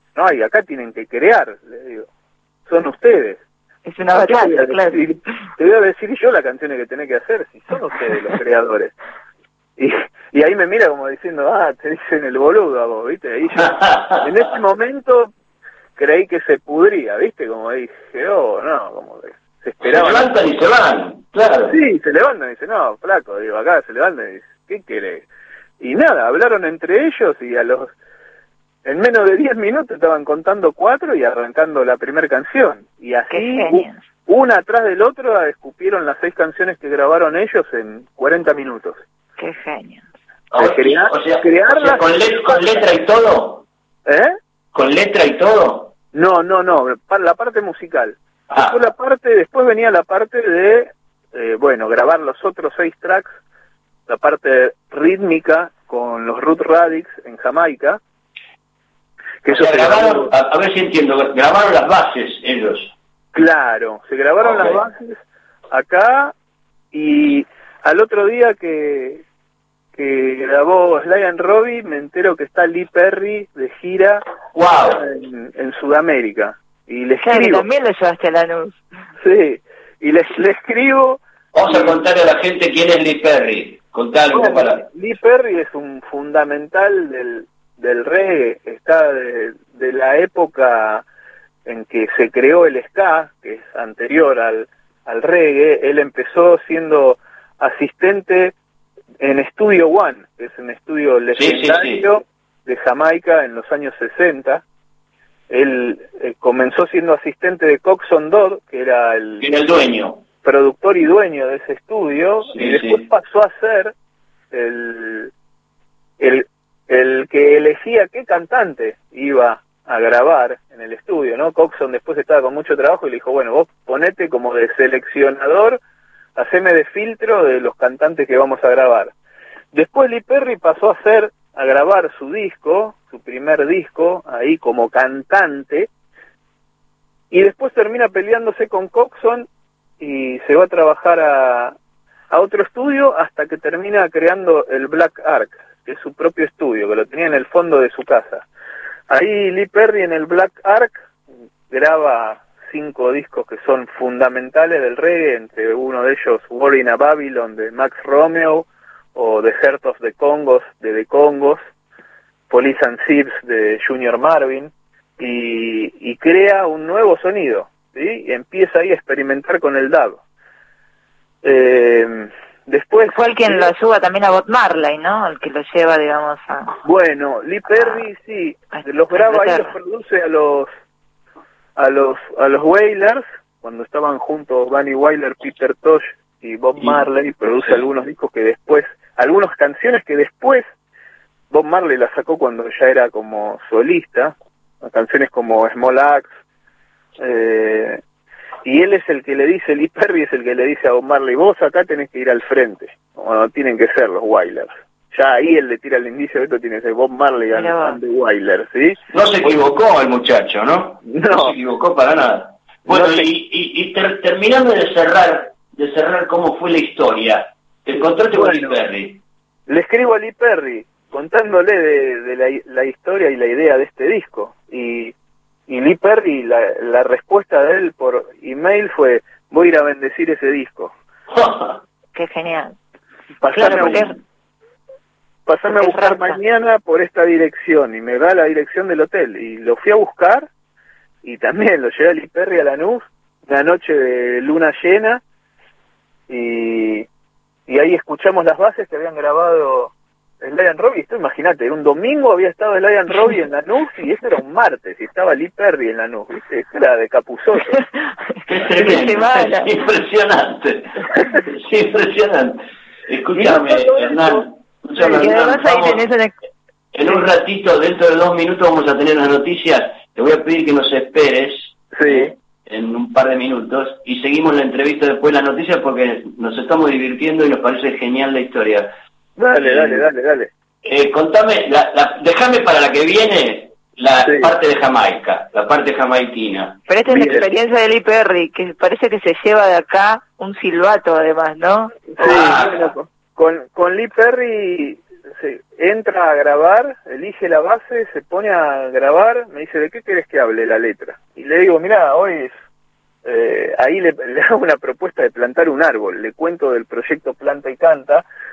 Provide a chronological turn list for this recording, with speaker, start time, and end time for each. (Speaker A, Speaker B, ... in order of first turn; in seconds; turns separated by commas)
Speaker A: 0.1-2.1, Speaker A: 2.7-3.4, Speaker B: 3.8-5.0, Speaker A: 4.1-8.9, Speaker A: 9.8-15.3, Speaker C: 13.6-14.2, Speaker A: 16.0-20.3, Speaker C: 19.8-21.7, Speaker A: 21.6-25.2, Speaker A: 25.8-27.9, Speaker A: 28.8-39.0, Speaker B: 33.3-34.0, Speaker B: 39.4-40.0, Speaker C: 40.5-43.6, Speaker A: 40.6-42.8, Speaker A: 44.0-44.3, Speaker C: 44.7-45.9, Speaker A: 46.1-53.3, Speaker C: 48.5-48.8, Speaker A: 54.1-58.0, Speaker A: 59.4-60.3, Speaker C: 59.5-62.9, Speaker A: 63.3-65.2, Speaker C: 64.4-64.8, Speaker A: 65.7-66.3, Speaker A: 66.9-69.2, Speaker A: 70.0-74.2, Speaker C: 74.5-75.0, Speaker A: 74.8-77.7, Speaker B: 77.2-78.8, Speaker A: 79.2-82.0, Speaker C: 81.5-84.8, Speaker A: 84.3-91.0, Speaker A: 91.7-98.5, Speaker A: 99.2-104.6, Speaker C: 101.3-102.0, Speaker A: 105.5-109.5, Speaker C: 109.4-110.2, Speaker A: 110.4-113.9, Speaker C: 112.5-113.0, Speaker A: 114.5-115.3, Speaker A: 116.2-125.8, Speaker A: 126.3-129.1, Speaker A: 129.7-135.9, Speaker A: 137.3-139.5, Speaker A: 140.0-141.7, Speaker A: 142.3-148.4, Speaker A: 149.1-151.0, Speaker A: 151.7-161.6, Speaker A: 162.5-170.2, Speaker A: 171.4-173.7, Speaker B: 173.1-176.8, Speaker A: 176.8-180.7, Speaker B: 178.7-179.7, Speaker A: 181.8-190.7, Speaker A: 191.5-196.3, Speaker A: 197.2-198.0, Speaker A: 198.6-209.5, Speaker B: 207.5-208.0, Speaker C: 209.1-219.2, Speaker A: 211.0-211.5, Speaker A: 212.9-213.3, Speaker A: 218.3-218.8, Speaker A: 219.7-225.1, Speaker A: 225.7-230.9, Speaker C: 231.3-231.8, Speaker B: 232.1-232.8, Speaker A: 233.4-234.1, Speaker B: 233.5-234.2, Speaker C: 233.7-234.0, Speaker A: 235.4-240.5, Speaker B: 235.7-236.4, Speaker A: 241.2-245.2, Speaker A: 246.3-247.1, Speaker A: 247.7-257.8, Speaker C: 258.4-266.1, Speaker B: 258.7-259.7, Speaker A: 263.3-264.5, Speaker A: 265.0-265.3, Speaker B: 265.1-266.3, Speaker C: 266.9-278.9, Speaker A: 271.9-272.3, Speaker A: 279.4-280.5, Speaker C: 279.5-280.0, Speaker C: 280.8-287.4, Speaker A: 284.2-284.5, Speaker B: 286.9-292.0, Speaker A: 292.1-302.5, Speaker C: 292.2-292.9, Speaker A: 303.2-308.2